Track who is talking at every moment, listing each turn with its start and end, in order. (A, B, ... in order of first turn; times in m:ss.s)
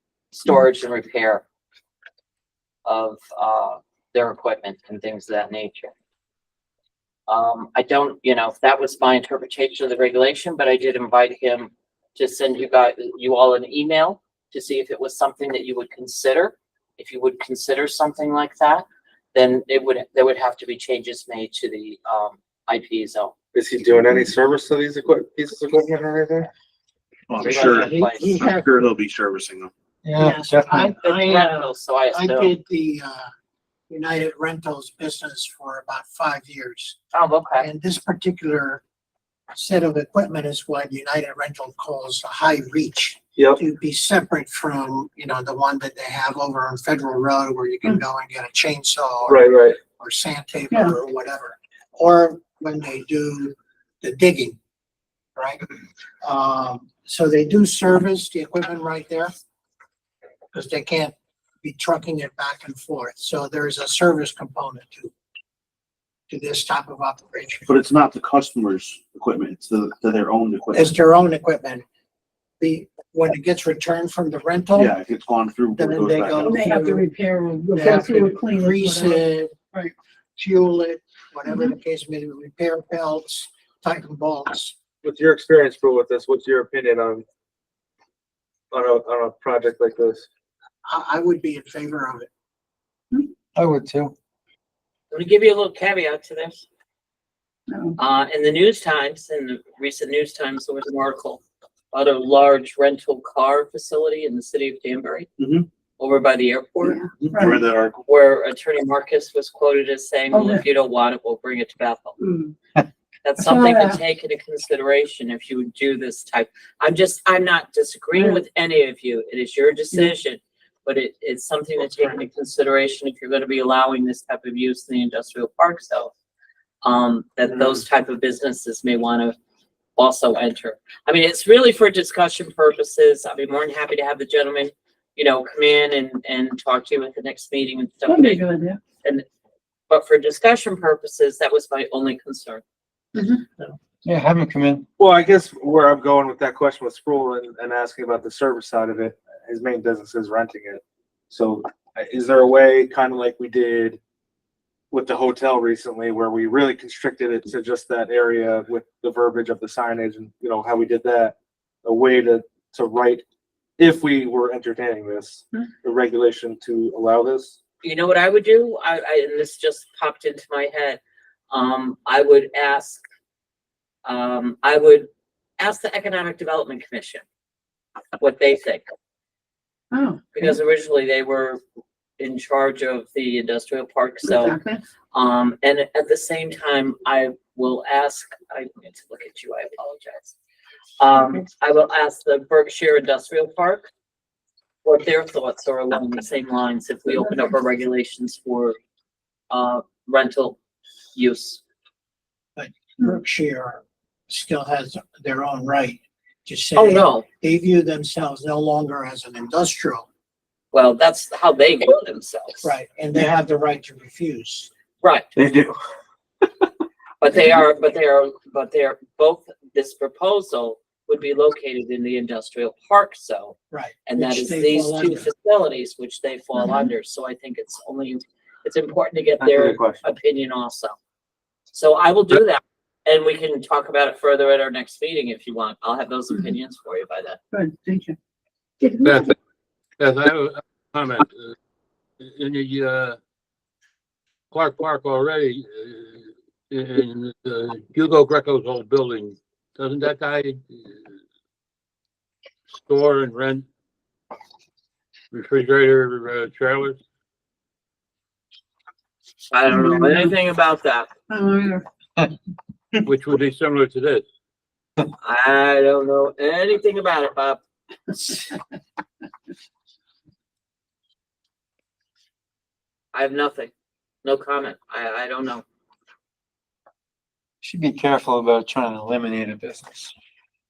0:00.3-0:01.4 A
0:02.8-0:05.9 A
0:07.3-0:23.3 A
0:23.5-0:26.5 B
0:27.3-0:29.7 C
0:27.4-0:28.4 A
0:27.6-0:28.7 D
0:30.1-0:33.3 D
0:30.2-0:30.9 E
0:31.0-0:32.5 A
0:33.9-0:37.0 D
0:37.1-0:37.7 A
0:37.6-0:38.8 D
0:39.5-0:54.6 D
0:49.3-0:49.8 B
0:55.4-0:55.6 D
0:56.2-0:59.3 D
1:00.5-1:05.1 D
1:06.3-1:07.7 D
1:07.7-1:11.0 C
1:10.7-1:11.8 D
1:12.6-1:14.9 D
1:14.8-1:16.6 C
1:15.7-1:17.1 D
1:16.4-1:19.9 F
1:17.7-1:19.5 D
1:20.4-1:24.8 D
1:25.0-1:27.2 B
1:28.7-1:30.3 B
1:30.9-1:32.3 D
1:33.6-1:34.1 E
1:35.1-1:36.6 A
1:37.7-1:38.0 F
1:38.0-1:45.3 A
1:45.4-1:45.7 C
1:46.0-1:47.0 A
1:46.8-1:47.6 F
1:47.2-1:48.0 C
1:48.1-1:52.2 A
1:50.3-1:50.6 F
1:52.2-1:52.6 F
1:53.2-2:06.1 A
1:53.4-1:54.0 F
1:58.2-1:58.4 F
2:06.8-2:09.4 A
2:10.0-2:18.4 A
2:18.1-2:18.8 F
2:19.9-2:22.6 A
2:23.2-2:23.4 F
2:24.0-2:24.9 E
2:25.0-2:34.0 B
2:34.9-2:43.2 B
2:43.8-2:47.6 B
2:47.8-2:53.0 A
2:54.0-2:55.1 A
2:55.6-2:57.2 A
2:58.2-2:58.8 A
2:59.9-3:00.5 F
3:00.3-3:01.6 A
3:02.2-3:04.6 A
3:04.2-3:04.8 F
3:05.1-3:10.4 A
3:11.0-3:13.9 A
3:14.8-3:18.8 A
3:19.5-3:20.6 A
3:21.2-3:21.6 A
3:22.6-3:30.1 D
3:26.8-3:27.3 A
3:30.7-3:32.7 A
3:32.6-3:34.7 D
3:35.0-3:35.3 A
3:35.4-3:35.8 E
3:37.2-3:51.0 A
3:43.7-3:45.3 D
3:49.4-3:50.0 E
3:51.7-3:57.4 A
3:57.5-3:58.2 F
3:58.8-3:59.3 F
3:59.0-3:59.3 G
4:00.0-4:01.5 G
4:02.2-4:03.2 G
4:04.5-4:10.6 G
4:12.8-4:13.6 G
4:15.3-4:17.0 G
4:19.5-4:21.1 A
4:19.7-4:20.3 F
4:21.3-4:21.8 F
4:23.0-4:24.2 G
4:25.2-4:27.6 A
4:33.1-4:33.7 A
4:34.2-4:35.6 A
4:37.6-4:40.1 E